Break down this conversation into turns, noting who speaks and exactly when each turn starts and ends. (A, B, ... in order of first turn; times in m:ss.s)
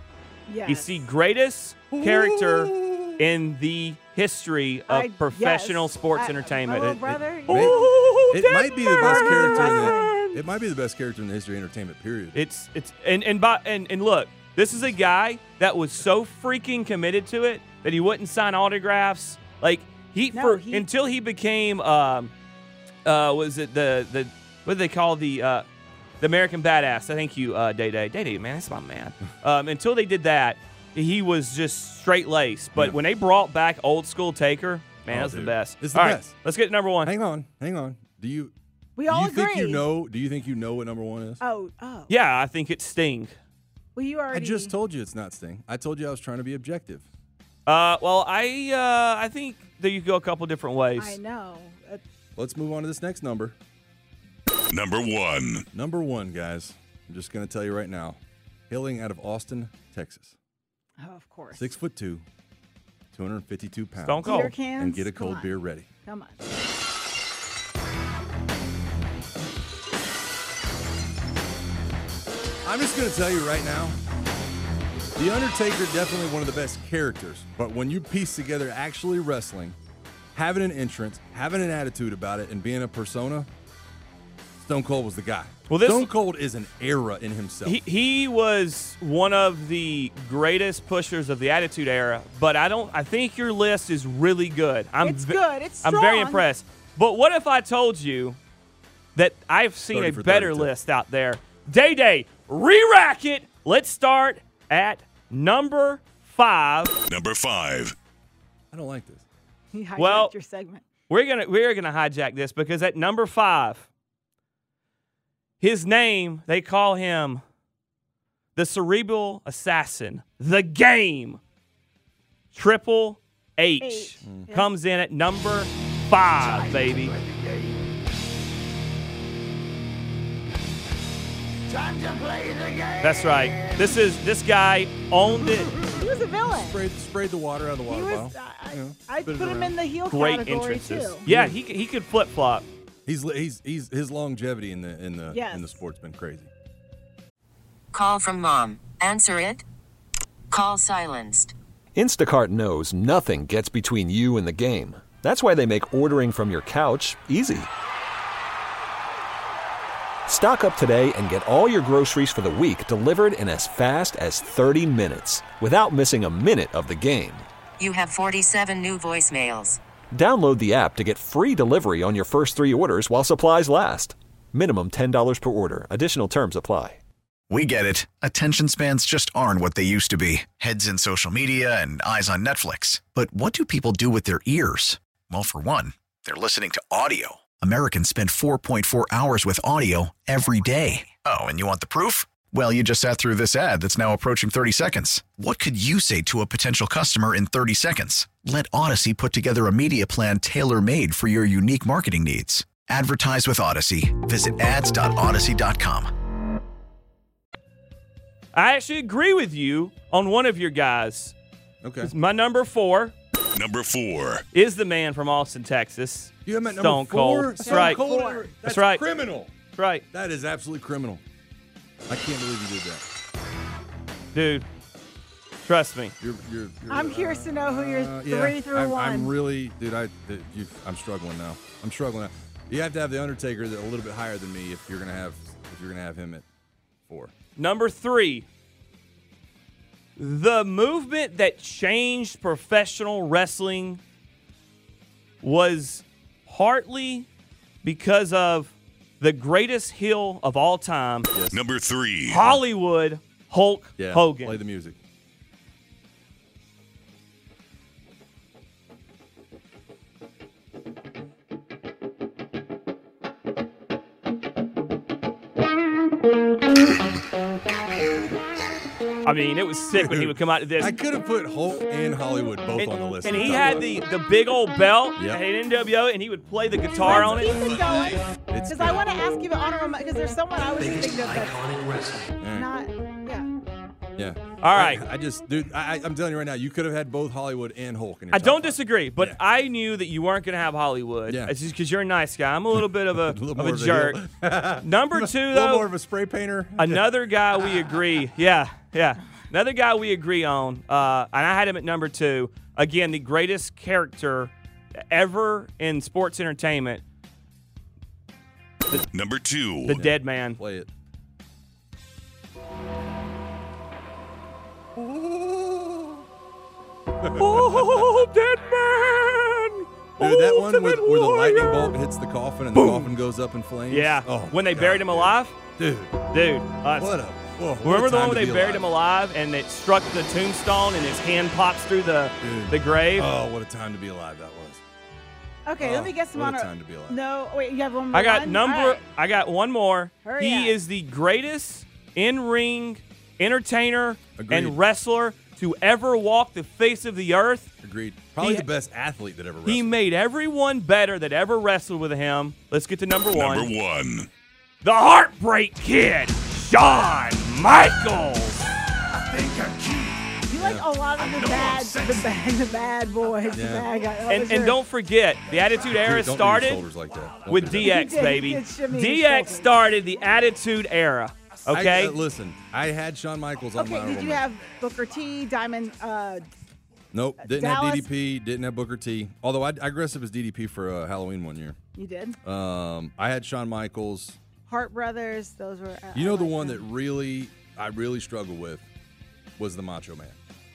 0:00.5-0:01.1 A
0:00.6-0:10.4 B
0:01.9-0:03.3 C
0:04.9-0:07.9 A
0:06.8-0:12.4 C
0:08.5-0:10.2 A
0:12.3-0:22.3 B
0:20.3-0:20.9 A
0:23.0-0:25.7 B
0:26.2-0:37.1 B
0:35.1-0:36.4 C
0:37.0-0:38.5 C
0:39.0-0:39.9 A
0:39.1-0:41.4 C
0:41.4-0:42.1 A
0:42.1-0:43.4 B
0:44.0-0:44.7 A
0:44.3-0:47.1 C
0:47.7-0:51.2 B
0:51.0-0:52.0 A
0:52.4-0:53.6 C
0:54.7-0:55.6 D
0:55.7-0:58.2 C
0:58.7-1:00.4 C
1:01.0-1:01.8 A
1:01.6-1:02.2 C
1:03.1-1:05.9 C
1:04.0-1:04.6 B
1:04.2-1:06.4 A
1:12.6-1:14.0 C
1:15.2-1:19.8 C
1:20.4-1:23.5 C
1:24.6-1:27.8 C
1:25.7-1:26.1 B
1:27.6-1:38.4 B
1:35.0-1:36.5 A
1:39.2-1:47.0 B
1:39.9-1:40.7 C
1:47.1-1:48.0 D
1:48.7-1:49.2 C
1:49.7-1:50.8 A
1:50.0-1:50.3 B
1:51.1-1:53.9 B
1:55.6-1:57.4 B
1:58.6-2:01.4 B
2:02.5-2:07.2 B
2:03.8-2:04.7 A
2:04.2-2:04.5 C
2:13.0-2:15.7 B
2:15.9-2:16.8 A
2:16.4-2:19.8 C
2:17.9-2:21.3 A
2:20.1-2:22.7 B
2:21.3-2:21.6 C
2:23.0-2:26.5 C
2:25.3-2:25.8 A
2:27.9-2:29.6 E
2:30.5-2:31.5 E
2:32.0-2:37.7 F
2:40.3-2:47.5 F
2:47.8-2:49.8 E
2:50.1-2:57.0 F
2:57.5-3:26.1 G
3:28.5-3:31.4 B
3:31.8-3:32.1 C
3:32.0-3:33.1 B
3:33.5-3:34.4 D
3:34.5-3:38.0 B
3:36.4-3:39.5 C
3:37.6-3:38.5 A
3:38.6-3:39.0 B
3:39.7-3:40.0 B
3:40.1-3:41.2 C
3:42.1-3:43.0 C
3:44.3-3:44.7 B
3:45.6-3:46.1 B
3:46.2-3:56.5 C
3:46.9-3:49.4 A
3:57.1-3:57.3 C
3:57.6-3:58.5 B
4:00.2-4:04.0 B
4:05.4-4:07.3 B
4:07.8-4:11.3 B
4:11.3-4:11.6 C
4:11.5-4:12.4 D
4:12.3-4:14.6 B
4:14.0-4:15.0 C
4:29.2-4:31.0 B
4:29.9-4:34.0 C
4:32.8-4:37.6 B
4:35.2-4:35.4 C
4:37.0-4:43.5 A
4:37.0-4:39.0 C
4:42.4-4:42.7 C
4:44.2-4:49.4 C
4:44.6-4:45.0 B
4:48.3-4:54.2 B
4:51.3-4:51.6 C
4:52.7-4:57.1 C
4:54.8-4:55.9 B
4:56.8-5:04.5 B
5:05.1-5:07.0 B
5:09.1-5:09.9 D
5:09.8-5:10.6 B
5:09.9-5:10.9 C
5:15.0-5:16.2 C
5:17.2-5:17.8 C
5:17.3-5:22.0 B
5:20.2-5:26.2 C
5:22.7-5:23.1 B
5:23.9-5:25.6 B
5:26.3-5:27.1 B
5:27.0-5:28.9 C
5:27.8-5:33.3 B
5:32.4-5:34.8 C
5:35.7-5:39.0 A
5:35.8-5:37.2 C
5:38.1-5:47.7 B
5:40.2-5:40.8 A
5:44.4-5:44.8 C
5:47.8-5:50.0 C
5:48.4-5:48.7 B
5:49.6-5:53.7 B
5:53.3-5:54.3 D
5:54.8-5:58.6 B
5:59.6-5:59.9 C
6:00.5-6:04.8 A
6:00.6-6:00.9 C
6:03.5-6:03.9 C
6:04.3-6:06.9 B
6:05.9-6:08.0 C
6:07.5-6:12.2 B
6:07.8-6:09.8 A
6:11.7-6:14.5 C
6:13.8-6:16.4 A
6:17.1-6:21.8 C
6:17.4-6:18.1 A
6:22.0-6:22.4 A
6:22.4-6:24.4 C
6:24.7-6:26.8 A
6:26.1-6:28.8 C
6:29.6-6:30.4 C